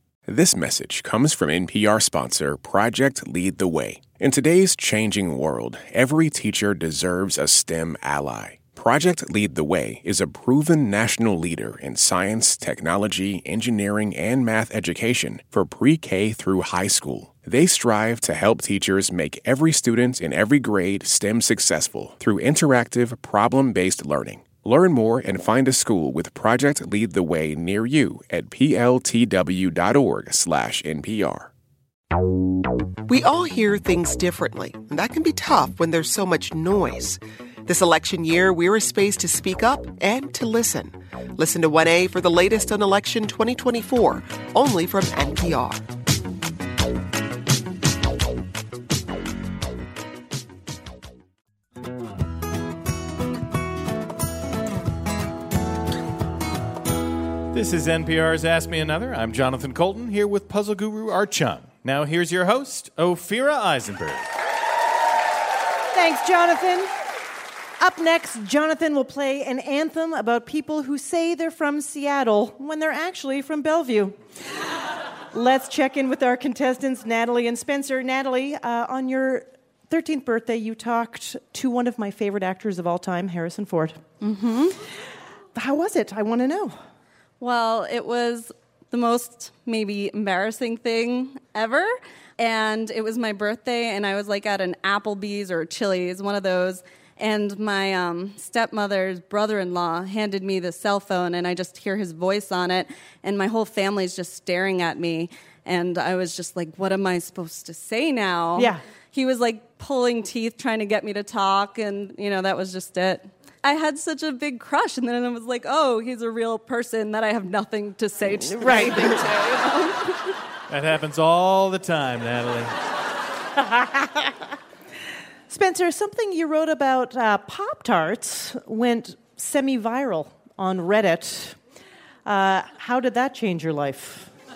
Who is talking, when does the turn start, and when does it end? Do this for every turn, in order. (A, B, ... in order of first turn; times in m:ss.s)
0:00.3-0:31.5 A
0:33.1-0:45.8 B
0:57.5-1:04.3 C
1:05.9-1:06.9 D
1:07.8-1:14.2 D
1:15.3-1:24.0 D
1:24.2-1:24.8 E
1:25.6-1:26.8 D
1:27.4-2:00.4 E
1:48.6-1:48.8 D
1:58.6-1:59.2 D
2:00.7-2:02.7 C
2:03.6-2:04.3 D
2:05.5-2:11.6 D
2:12.3-2:14.3 D